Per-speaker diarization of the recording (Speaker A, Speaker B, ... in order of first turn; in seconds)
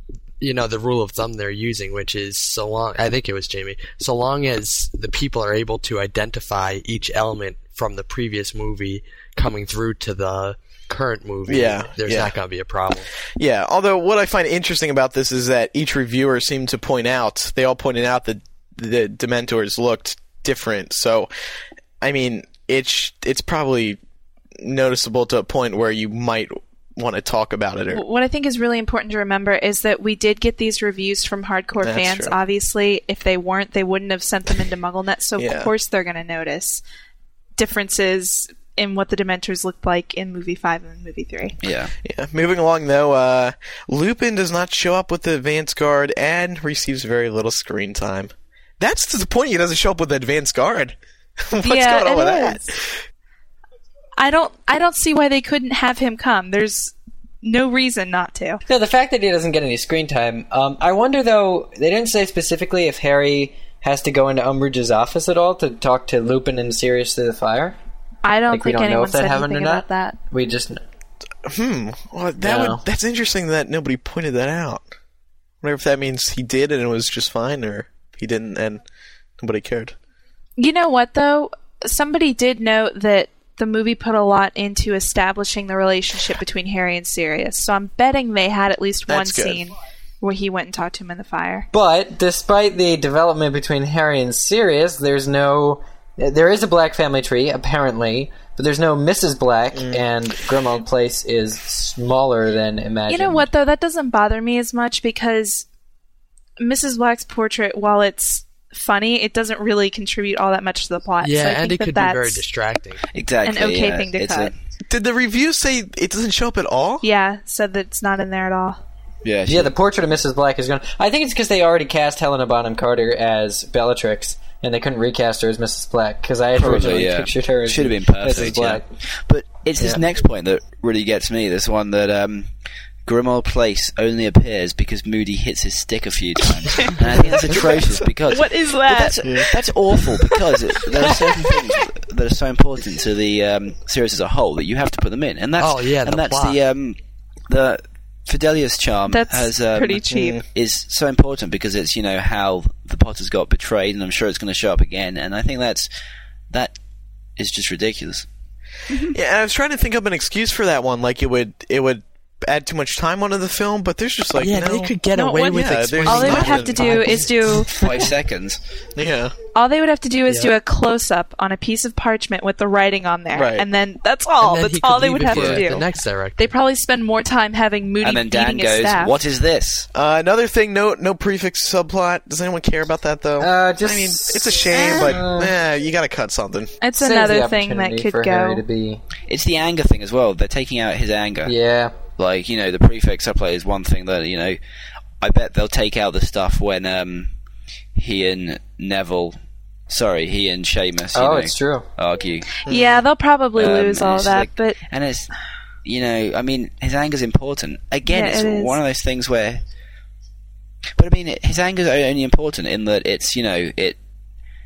Speaker A: 0.4-13.1, 111.2-113.0, 145.6-146.6, 164.3-167.8, 174.4-176.5
Speaker B: 11.5-12.3, 13.3-21.3, 22.0-24.0, 24.6-28.0, 31.8-32.4, 35.4-35.7, 42.0-53.0, 71.4-74.9, 75.6-78.8, 79.4-79.9, 89.1-89.6, 99.7-100.0, 114.9-117.0, 139.2-139.6, 150.1-150.4, 159.1-165.0, 165.5-167.1, 168.9-169.3, 173.3-173.7, 179.9-186.8, 202.7-203.0
Speaker C: 27.9-36.8, 37.6-41.5, 51.6-52.7, 54.2-58.6, 68.2-70.2, 80.6-91.7, 103.1-105.7, 106.6-112.4, 113.4-114.5, 117.0-118.8, 136.7-139.2, 149.1-150.4, 158.9-159.2, 165.1-168.0, 169.5-179.2, 186.8-188.6, 202.7-204.8, 208.1-208.8
Speaker D: 41.6-41.9, 113.1-114.5, 119.2-119.7, 126.6-132.5, 133.0-155.9, 156.5-156.8, 157.4-158.3, 167.7-168.6, 175.3-175.7, 178.0-179.9, 189.3-191.5, 192.1-194.6, 195.2-197.3, 197.9-199.4, 199.9-202.6, 203.5-205.3, 205.8-209.6, 211.0-214.0
Speaker E: 58.7-67.8, 68.5-70.8, 72.4-72.8, 91.7-103.5, 119.5-128.8, 183.4-185.5, 186.9-189.0, 191.4-191.9, 201.1-201.8